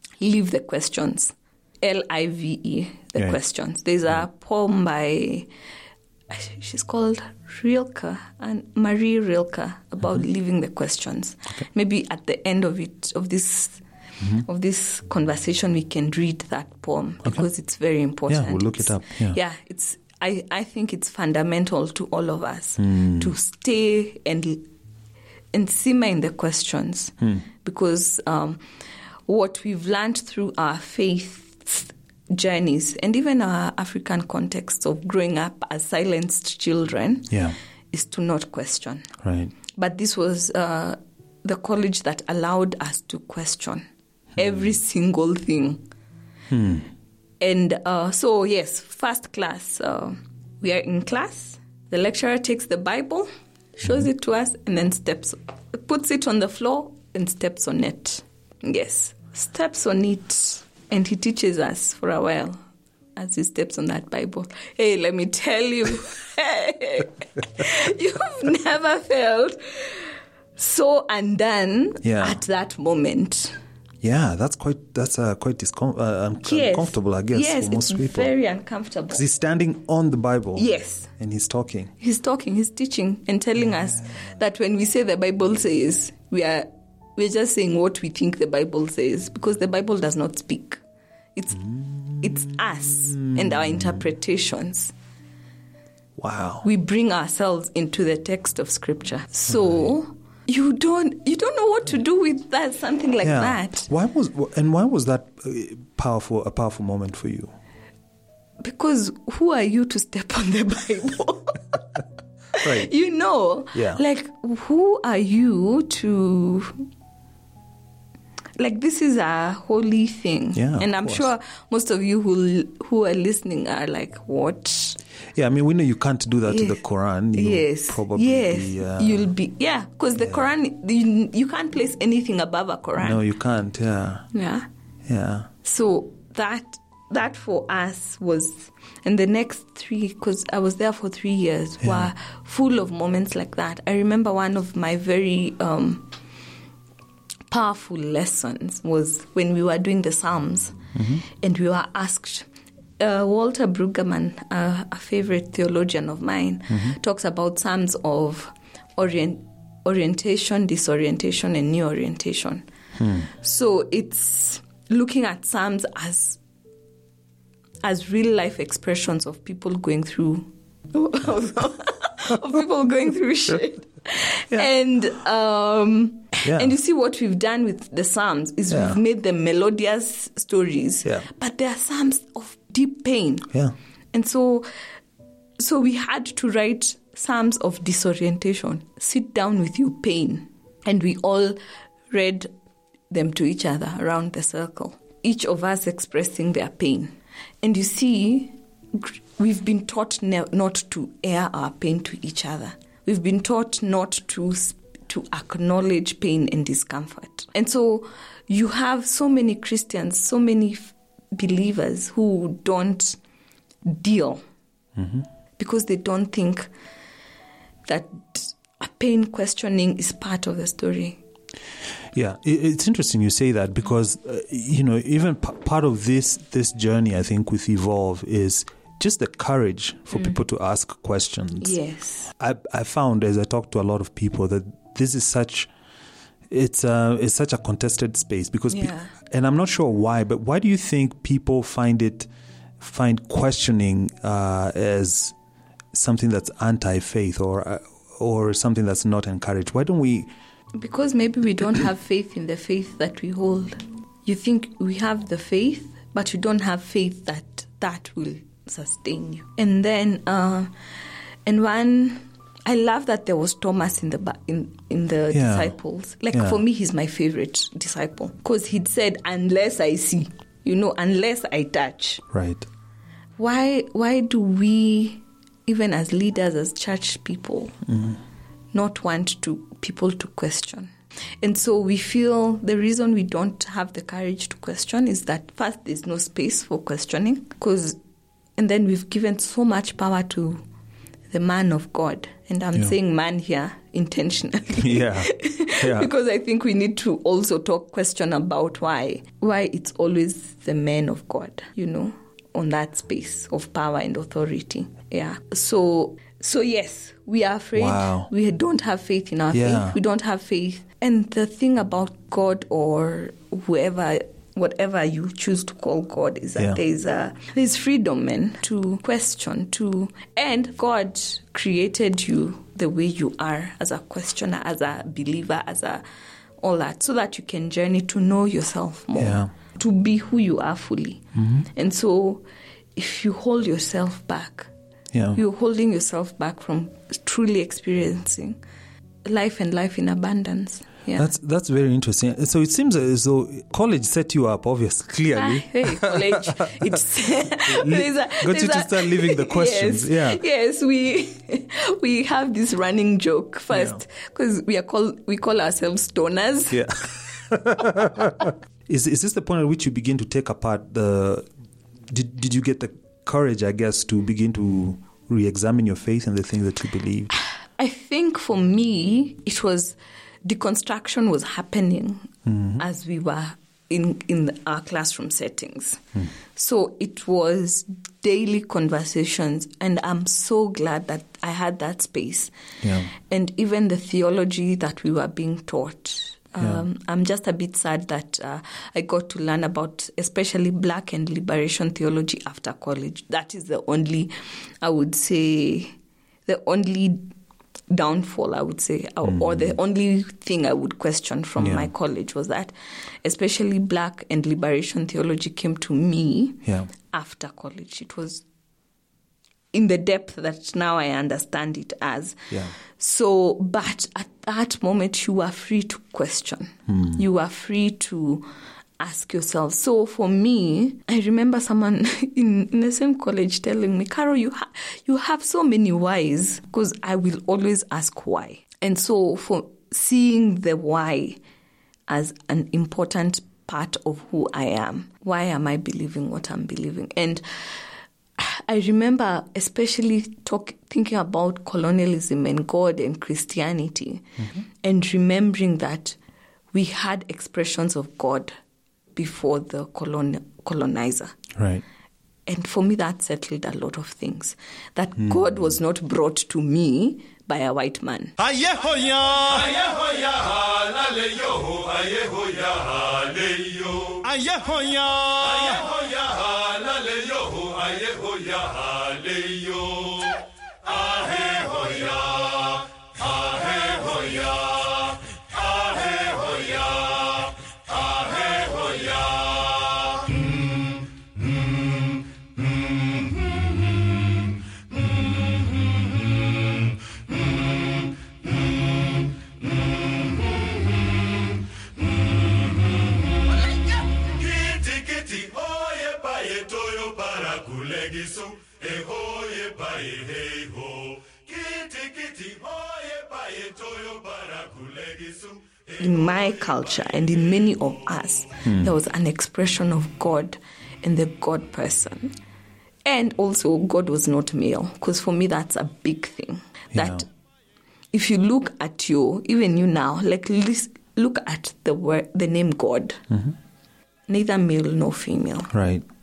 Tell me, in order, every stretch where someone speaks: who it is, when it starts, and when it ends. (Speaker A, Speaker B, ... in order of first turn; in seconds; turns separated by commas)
Speaker A: 0.2-5.5, Speaker A: 6.3-13.8, Speaker A: 14.3-24.7, Speaker B: 18.3-19.4, Speaker B: 22.8-23.3, Speaker A: 25.5-28.6, Speaker A: 29.3-37.4, Speaker A: 37.9-39.1, Speaker B: 39.2-39.5, Speaker A: 39.7-43.9, Speaker A: 44.4-45.8, Speaker B: 46.5-46.9, Speaker A: 47.4-62.6, Speaker A: 63.2-73.5, Speaker B: 72.0-72.4, Speaker B: 74.0-78.3, Speaker A: 76.4-79.2, Speaker B: 79.1-81.9, Speaker A: 80.5-81.1, Speaker A: 82.0-90.8, Speaker A: 91.3-94.9, Speaker B: 91.8-92.2, Speaker B: 93.3-94.0, Speaker B: 96.2-96.7, Speaker A: 96.6-103.9, Speaker B: 99.5-99.8, Speaker B: 103.2-107.5, Speaker A: 108.6-111.8, Speaker A: 112.5-116.8, Speaker B: 112.6-112.9, Speaker B: 113.7-114.0, Speaker A: 118.6-125.0, Speaker B: 120.5-121.3, Speaker B: 125.3-129.3, Speaker A: 126.5-126.8, Speaker A: 127.3-133.2, Speaker B: 133.0-134.2, Speaker A: 134.3-134.7, Speaker B: 135.1-135.5, Speaker A: 135.6-146.1, Speaker B: 141.8-142.1, Speaker A: 147.5-152.5, Speaker B: 150.9-151.2, Speaker A: 153.0-162.7, Speaker B: 156.7-156.9, Speaker B: 163.0-163.3, Speaker A: 163.2-166.4, Speaker A: 167.8-183.5, Speaker B: 176.4-176.7, Speaker B: 178.7-179.0, Speaker A: 184.1-184.7, Speaker A: 185.6-191.6, Speaker A: 192.1-192.5, Speaker A: 193.1-213.2, Speaker A: 213.8-214.4, Speaker B: 215.0-215.2, Speaker A: 215.6-216.7, Speaker A: 217.9-221.2, Speaker B: 222.1-231.8, Speaker A: 231.6-232.3, Speaker B: 232.4-235.7, Speaker B: 236.5-242.3, Speaker A: 238.7-239.1, Speaker B: 242.8-245.3, Speaker B: 245.9-250.3, Speaker A: 250.8-260.7, Speaker A: 261.5-272.2, Speaker B: 265.3-265.8, Speaker B: 266.3-266.6, Speaker B: 272.3-272.7, Speaker A: 273.4-277.8, Speaker B: 277.9-278.2, Speaker A: 278.7-288.0, Speaker A: 288.6-290.6, Speaker A: 291.3-326.0, Speaker B: 294.8-296.1, Speaker B: 307.8-308.3, Speaker B: 309.5-310.0, Speaker A: 326.6-332.4, Speaker B: 329.2-329.5, Speaker B: 331.4-331.7, Speaker A: 333.0-334.7, Speaker B: 335.1-335.4, Speaker A: 335.3-338.6, Speaker A: 339.2-341.3, Speaker B: 341.1-347.0, Speaker A: 345.3-356.9, Speaker B: 347.7-350.4, Speaker B: 353.7-354.0, Speaker B: 356.7-361.5, Speaker B: 362.1-367.3, Speaker A: 367.4-376.0, Speaker B: 372.5-372.8, Speaker A: 376.5-382.5, Speaker B: 382.8-383.1, Speaker A: 383.1-395.9, Speaker A: 396.5-397.3, Speaker A: 397.9-402.7, Speaker B: 399.3-399.7, Speaker B: 401.6-401.9, Speaker A: 403.2-408.4, Speaker A: 409.7-418.5, Speaker B: 416.9-417.2, Speaker A: 419.0-431.4, Speaker A: 432.1-437.8, Speaker A: 438.4-446.2, Speaker A: 446.7-448.5, Speaker A: 449.1-451.4, Speaker B: 451.6-451.8, Speaker A: 452.5-458.3, Speaker C: 458.4-480.2, Speaker C: 494.2-506.0, Speaker A: 506.0-512.3, Speaker A: 513.0-517.3, Speaker B: 516.9-517.2, Speaker A: 518.1-523.2, Speaker A: 524.3-525.7, Speaker B: 525.7-526.0